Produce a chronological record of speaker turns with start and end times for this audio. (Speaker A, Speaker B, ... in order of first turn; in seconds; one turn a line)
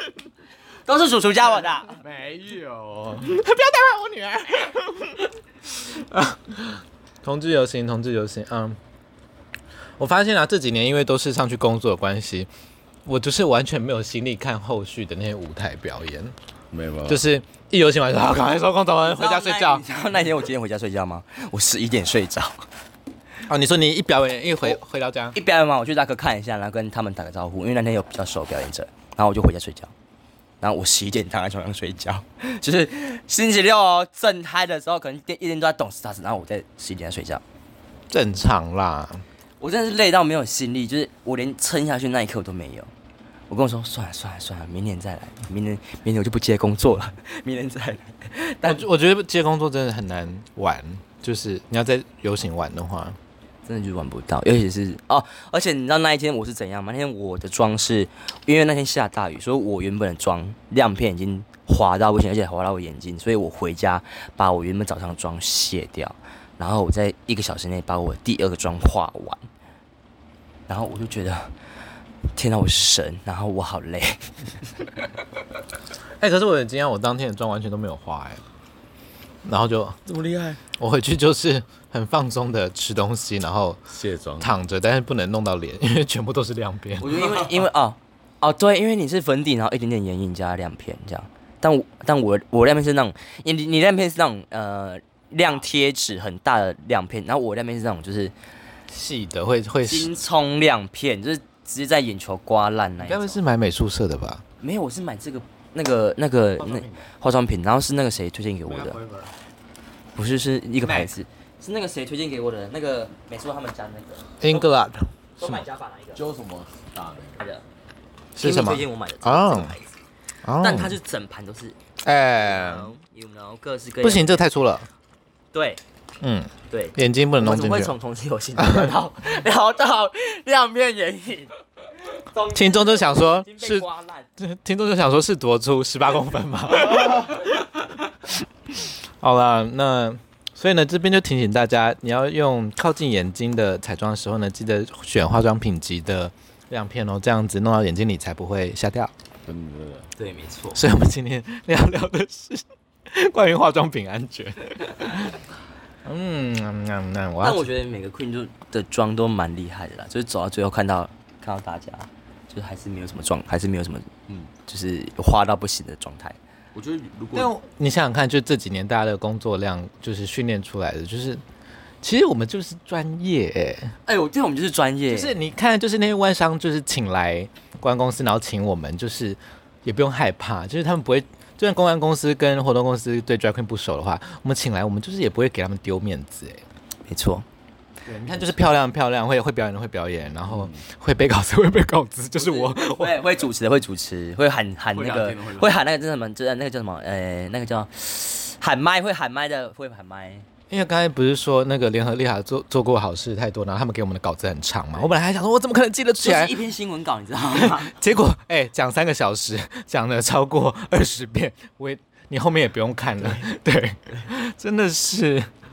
Speaker A: 0.8-1.9
Speaker B: 2.0-3.3
Speaker C: 3.2-8.8
Speaker C: 10.0-12.5
Speaker C: 13.1-16.3
Speaker B: 16.7-17.2
Speaker C: 17.1-19.8
Speaker A: 19.0-22.6
Speaker C: 23.5-25.4
Speaker A: 25.3-29.9
Speaker A: 30.6-37.4
Speaker C: 38.1-39.2
Speaker A: 39.6-42.9
Speaker A: 43.5-48.8
Speaker C: 48.6-53.2
Speaker A: 53.6-69.4
Speaker A: 70.7-71.5
Speaker A: 72.3-74.2
Speaker C: 76.2-78.4
Speaker C: 79.4-80.0
Speaker B: 80.0-80.6
Speaker C: 80.8-83.8
Speaker B: 83.9-84.5
Speaker C: 84.4-87.3
Speaker A: 87.0-98.3
Speaker C: 98.9-100.1
Speaker A: 99.8-103.4
Speaker C: 103.0-104.4
Speaker A: 104.6-109.0
Speaker B: 106.6-107.0
Speaker B: 108.7-109.3
Speaker A: 110.2-114.4
Speaker C: 114.4-115.6
Speaker A: 115.4-116.2
Speaker B: 116.1-117.4
Speaker A: 117.4-117.6
Speaker C: 118.3-119.7
Speaker A: 118.4-119.9
Speaker C: 120.4-121.0
Speaker A: 120.6-121.8
Speaker C: 122.0-122.9
Speaker A: 122.3-124.5
Speaker C: 124.0-124.9
Speaker A: 125.5-125.8
Speaker C: 126.2-127.9
Speaker A: 126.7-131.5
Speaker C: 128.6-129.0
Speaker A: 132.2-134.3
Speaker C: 132.5-137.5
Speaker C: 138.7-149.1
Speaker B: 149.5-150.1
Speaker A: 150.2-150.8
Speaker C: 150.7-155.3
Speaker C: 156.0-157.7
Speaker A: 157.4-164.1
Speaker A: 164.6-166.4
Speaker B: 166.7-167.5
Speaker C: 167.3-171.4
Speaker C: 172.0-173.9
Speaker A: 174.1-175.3
Speaker C: 175.1-186.6
Speaker A: 187.1-187.4
Speaker C: 188.1-193.4
Speaker B: 190.5-190.7
Speaker A: 192.4-200.4
Speaker B: 194.9-195.7
Speaker C: 200.7-206.6
Speaker A: 206.2-207.9
Speaker C: 207.5-215.5